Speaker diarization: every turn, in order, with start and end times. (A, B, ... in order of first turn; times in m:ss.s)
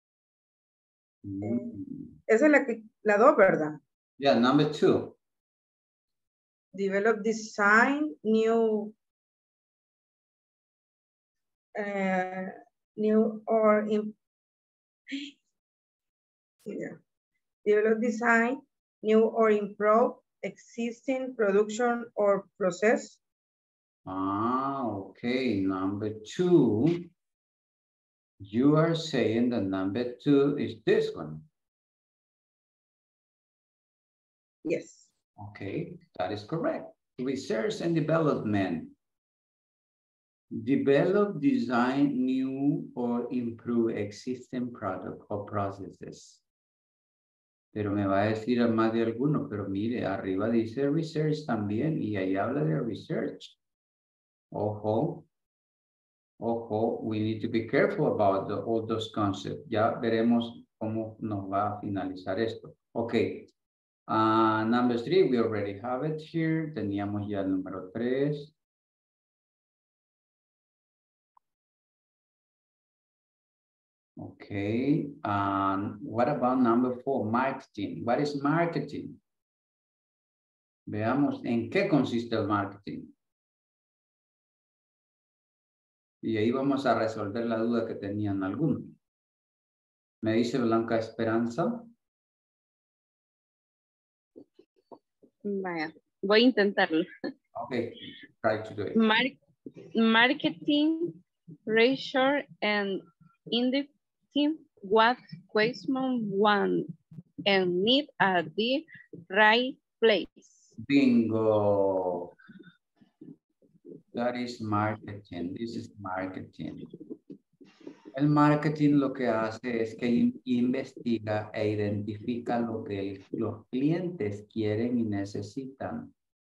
0:01.2-0:02.2 A
0:01.4-0:01.7 B
0:02.3-0:03.8 B
0:04.2-0:05.2 A
0:06.7-0:08.9 B
0:11.8-0:14.2 B
0:16.7-0:17.0 B
0:17.6-0:23.2 B
0:24.1-0:27.1 A
0:28.4-0:31.4 A
0:34.6-0:35.1 B
0:35.4-0:38.9 A
0:40.5-0:46.4 A
0:47.7-0:53.6 A
0:54.5-0:55.3 A
0:56.4-1:03.5 A
1:04.1-1:08.5 A
1:14.2-1:19.2 A
1:20.9-1:23.1 A
1:26.2-1:29.0 A
1:30.2-1:31.9 A
1:35.4-1:37.1 C
1:37.6-1:39.0 A
1:39.0-1:39.4 C
1:40.0-1:46.9 C
1:47.5-1:50.5 C
1:50.8-1:52.3 A
1:54.1-1:56.9 A
1:58.1-2:06.1 A